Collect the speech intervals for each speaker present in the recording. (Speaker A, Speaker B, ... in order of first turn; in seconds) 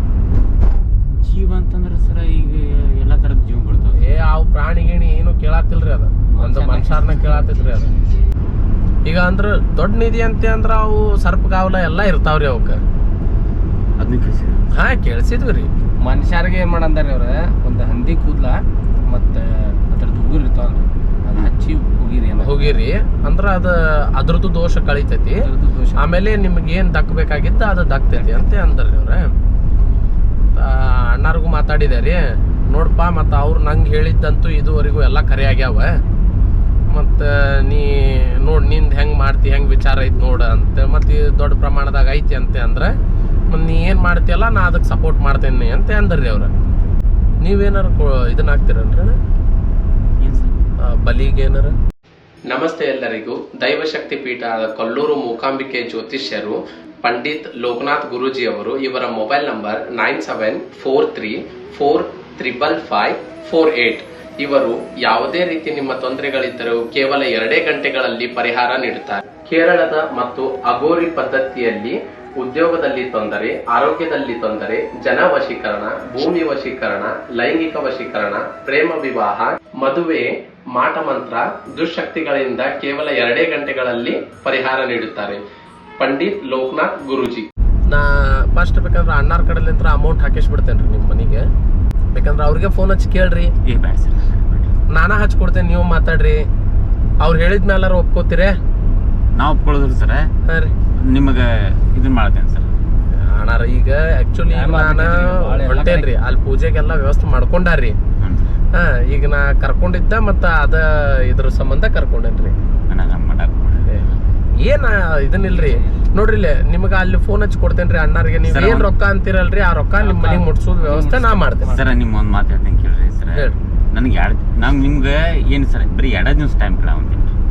Speaker A: 0.9-4.0, 14.0-14.7, 50.2-50.6, 93.7-94.7, 99.3-100.3, 101.0-102.7, 108.2-108.5, 112.9-114.0, 118.5-118.9, 121.6-127.3
Speaker B: 4.0-8.0, 9.1-12.8, 14.7-15.7, 22.4-25.4, 26.0-29.3, 30.6-36.0, 36.9-42.9, 43.5-46.5, 47.4-49.2, 50.8-51.8, 52.5-85.4, 86.0-91.5, 92.2-93.5, 94.9-96.4, 97.2-98.6, 100.5-100.7, 103.2-108.0, 108.7-112.6, 114.6-121.8
Speaker C: 6.3-7.8, 16.0-22.8, 25.4-26.0, 28.2-28.5, 104.5-106.1, 115.5-116.0, 120.0-121.8